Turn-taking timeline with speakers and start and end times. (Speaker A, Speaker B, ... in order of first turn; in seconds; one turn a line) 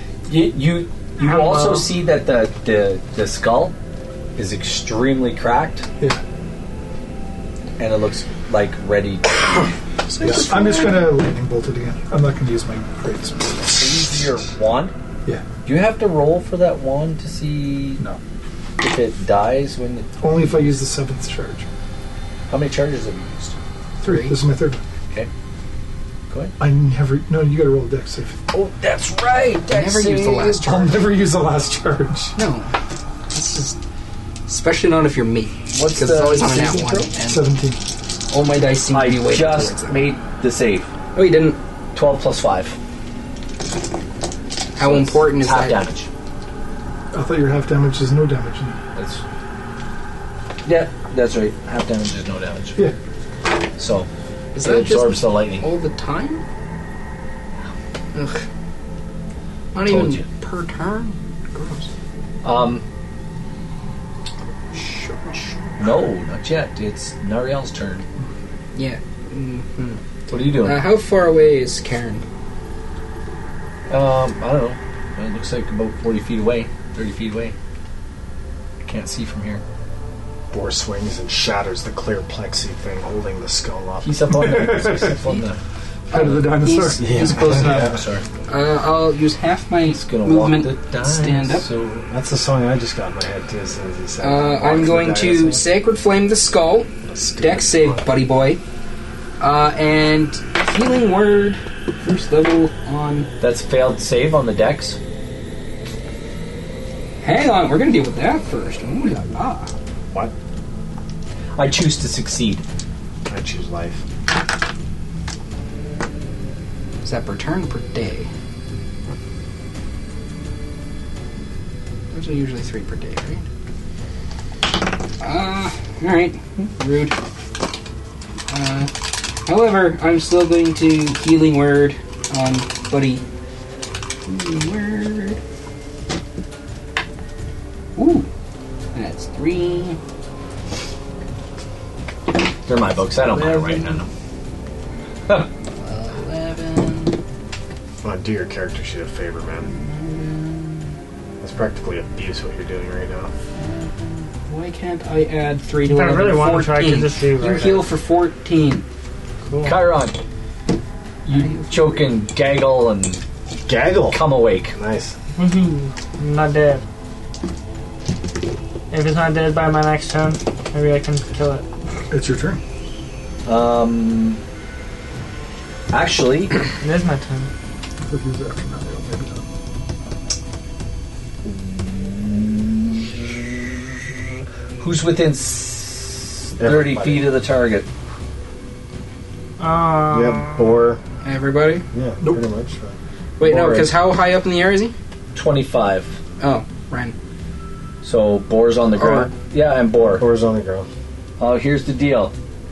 Speaker A: 0.3-3.7
Speaker B: 1.2-1.9
Speaker A: 4.3-5.8
Speaker A: 7.8-9.7
Speaker C: 10.1-11.1
Speaker D: 10.2-13.6
Speaker A: 13.6-14.9
Speaker A: 15.6-18.0
Speaker A: 18.8-20.7
Speaker D: 20.2-21.7
Speaker A: 22.5-23.6
Speaker C: 24.0-24.4
Speaker D: 24.0-24.8
Speaker A: 26.3-26.5
Speaker D: 26.6-28.4
Speaker A: 28.5-30.6
Speaker C: 29.7-31.1
Speaker D: 30.6-32.4
Speaker C: 32.4-32.7
Speaker C: 33.3-33.8
Speaker C: 34.5-37.5
Speaker A: 35.7-37.1
Speaker D: 36.7-37.8
Speaker C: 38.3-40.0
Speaker A: 38.9-40.9
Speaker C: 41.1-41.6
Speaker A: 41.9-42.8
Speaker C: 44.8-45.8
Speaker A: 44.8-46.1
Speaker D: 47.1-48.8
Speaker A: 48.9-49.2
Speaker A: 50.6-52.9
Speaker A: 53.8-54.1
Speaker C: 54.5-56.4
Speaker A: 54.6-55.6
Speaker C: 58.1-58.4
Speaker C: 59.7-61.9
Speaker A: 59.8-60.2
Speaker A: 62.4-62.8
Speaker C: 64.7-65.5
Speaker A: 65.8-68.0
Speaker C: 68.7-70.0
Speaker A: 70.3-70.8
Speaker C: 70.6-72.2
Speaker A: 73.9-77.5
Speaker A: 78.8-79.6
Speaker E: 80.5-84.8
Speaker A: 84.0-85.6
Speaker D: 84.3-85.3
Speaker C: 86.1-91.7
Speaker D: 86.1-87.1
Speaker E: 87.0-88.0
Speaker A: 87.3-88.2
Speaker A: 89.8-92.0
Speaker E: 91.9-95.7
Speaker C: 94.2-98.6
Speaker E: 97.0-98.1
Speaker C: 99.4-103.3
Speaker A: 103.4-105.0
Speaker C: 107.2-109.7
Speaker A: 111.5-112.6
Speaker E: 113.3-114.0
Speaker C: 117.0-118.3
Speaker C: 122.1-123.5
Speaker C: 125.2-127.2
Speaker C: 128.5-128.9
Speaker C: 129.4-133.2
Speaker C: 134.2-135.4
Speaker C: 137.9-138.3
Speaker C: 138.9-140.0
Speaker A: 142.7-144.1
Speaker C: 145.8-147.2
Speaker E: 148.0-149.7
Speaker C: 149.7-150.9
Speaker E: 151.4-153.3
Speaker C: 153.6-158.8
Speaker B: 155.8-157.9
Speaker B: 159.4-159.8
Speaker A: 159.6-160.2
Speaker A: 161.2-163.2
Speaker C: 161.3-162.1
Speaker E: 163.7-165.2
Speaker A: 164.1-164.7
Speaker B: 165.3-166.8
Speaker B: 168.9-171.7
Speaker D: 172.1-172.6
Speaker A: 173.4-174.4
Speaker A: 175.9-176.6
Speaker B: 176.8-177.5
Speaker D: 178.0-179.4
Speaker A: 181.4-184.2
Speaker A: 184.8-187.9
Speaker E: 186.6-187.3
Speaker B: 189.6-190.8
Speaker E: 190.1-191.0
Speaker C: 191.2-191.8
Speaker E: 191.9-193.0
Speaker C: 193.4-194.9
Speaker A: 193.4-194.0
Speaker A: 195.3-196.2
Speaker C: 196.4-197.1
Speaker A: 198.0-200.2
Speaker C: 199.0-199.3
Speaker E: 200.0-200.9
Speaker A: 201.4-202.3